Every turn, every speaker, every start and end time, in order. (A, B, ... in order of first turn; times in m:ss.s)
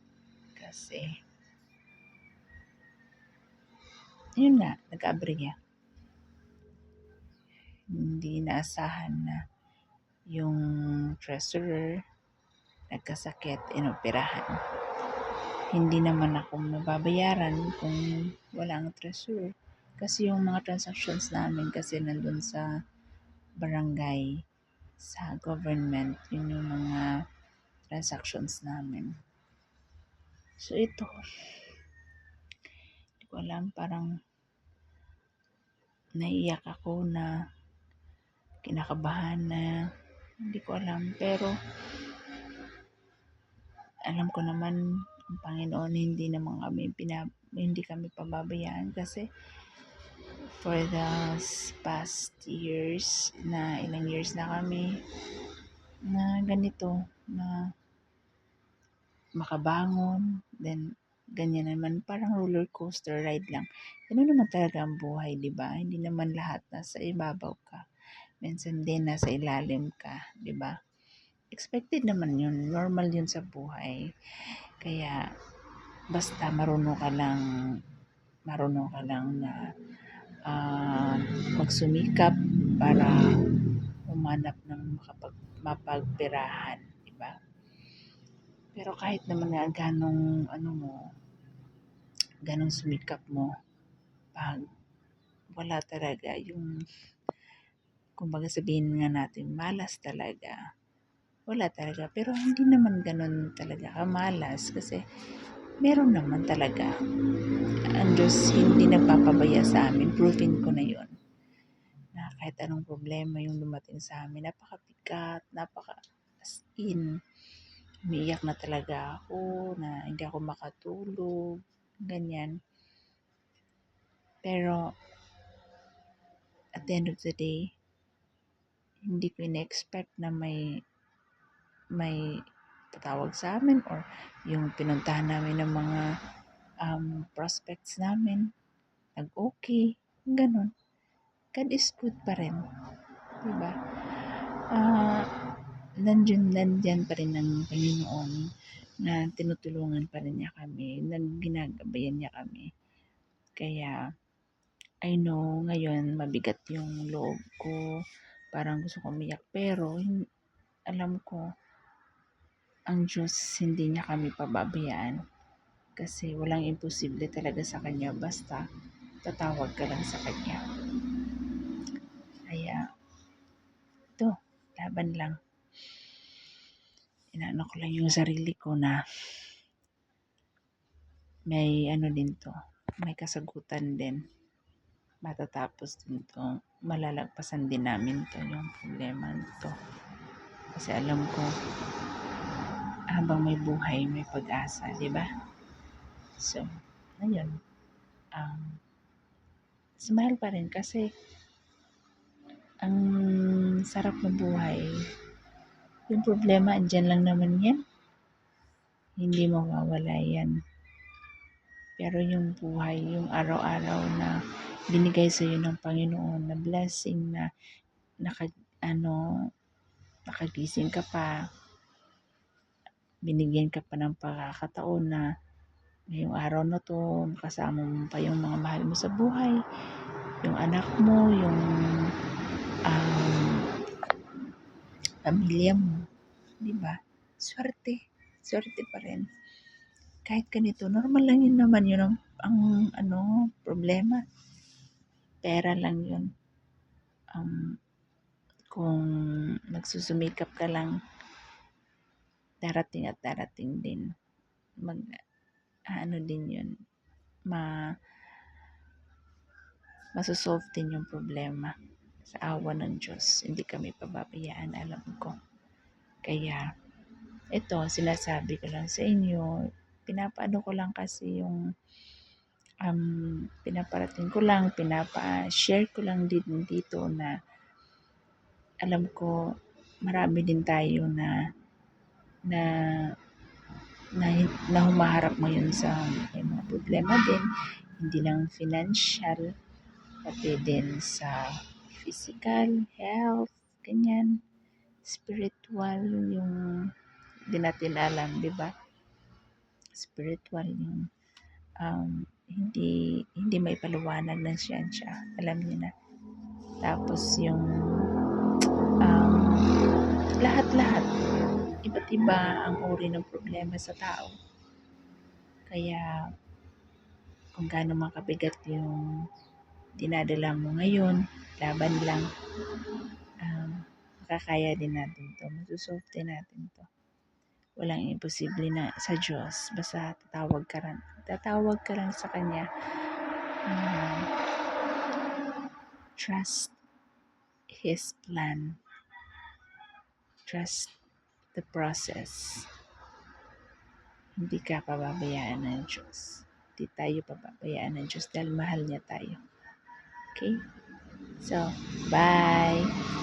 0:00.6-0:01.1 A
0:04.4-0:05.6 A
0:07.9-0:09.4 A
0:10.3-0:10.6 A
0:11.1-0:12.0 A
0:12.9-0:14.6 A
0:15.7-0:22.6 A
0:23.6-0:24.3 A
0:25.1-0:27.1 A
0:27.9-0:29.1 A
0:30.6-0:31.2 A
0:33.2-0:34.1 A
0:36.2-0:37.3 A
0:38.6-0:39.7 A
0:40.5-0:41.5 A
0:44.1-0:44.8 A
0:45.3-0:49.3 A
0:50.6-0:54.9 A
0:56.1-0:57.6 A
0:59.4-1:00.8 A
1:01.4-1:07.8 A
1:08.4-1:10.8 A
1:11.5-1:14.0 A
1:14.8-1:15.2 A
1:16.1-1:17.4 A
1:18.5-1:19.6 A
1:20.5-1:23.2 A
1:24.1-1:27.4 A
1:28.8-1:31.0 A
1:32.4-1:33.5 A
1:34.4-1:34.6 A
1:35.6-1:36.7 A
1:38.2-1:40.6 A
1:41.5-1:45.0 A
1:45.8-1:47.0 A
1:48.0-1:51.1 A
1:52.2-1:57.1 A
1:58.1-2:01.4 A
2:02.1-2:02.5 A
2:04.4-2:04.8 A
2:06.8-2:07.6 A
2:09.1-2:10.6 A
2:12.9-2:16.0 A
2:16.8-2:18.4 A
2:19.2-2:20.7 A
2:21.5-2:22.6 A
2:23.4-2:25.2 A
2:26.0-2:28.4 A
2:29.0-2:32.7 A
2:33.6-2:34.0 A
2:35.0-2:37.8 A
2:38.5-2:40.1 A
2:40.9-2:41.4 A
2:42.9-2:45.2 A
2:46.0-2:48.6 A
2:49.2-2:50.6 A
2:52.5-2:52.8 A
2:54.2-2:55.4 A
2:57.3-2:59.0 A
3:01.5-3:04.2 A
3:05.2-3:09.8 A
3:10.8-3:11.5 A
3:13.2-3:15.3 A
3:16.4-3:16.7 A
3:17.2-3:17.5 A
3:18.4-3:18.8 A
3:20.0-3:21.1 A
3:22.8-3:24.9 A
3:26.1-3:27.8 A
3:29.2-3:30.5 A
3:32.0-3:34.3 A
3:34.9-3:37.5 A
3:38.2-3:39.2 A
3:40.3-3:41.4 A
3:43.3-3:45.3 A
3:46.1-3:49.6 A
3:50.4-3:52.1 A
3:52.9-3:53.6 A
3:55.2-3:56.0 A
3:56.6-3:59.3 A
4:00.2-4:04.2 A
4:05.4-4:06.3 A
4:07.4-4:07.8 A
4:08.7-4:11.0 A
4:12.6-4:14.0 A
4:14.8-4:15.2 A
4:15.9-4:16.7 A
4:20.2-4:21.8 A
4:22.3-4:25.4 A
4:26.2-4:26.6 A
4:27.6-4:29.5 A
4:30.1-4:31.6 A
4:32.8-4:37.3 A
4:38.8-4:39.4 A
4:40.0-4:41.3 A
4:44.2-4:47.4 A
4:48.0-4:49.5 A
4:50.2-4:54.3 A
4:55.0-4:56.6 A
4:57.5-4:58.8 A
5:00.0-5:01.0 A
5:01.8-5:05.9 A
5:06.8-5:07.7 A
5:09.0-5:09.6 A
5:10.4-5:11.1 A
5:11.9-5:14.3 A
5:15.7-5:16.1 A
5:17.5-5:19.0 A
5:20.0-5:22.3 A
5:23.4-5:26.9 A
5:27.8-5:32.7 A
5:33.7-5:34.3 A
5:36.2-5:36.7 A
5:37.8-5:38.7 A
5:40.5-5:40.9 A
5:41.5-5:42.6 A
5:44.4-5:49.4 A
5:50.3-5:50.6 A
5:51.4-5:52.9 A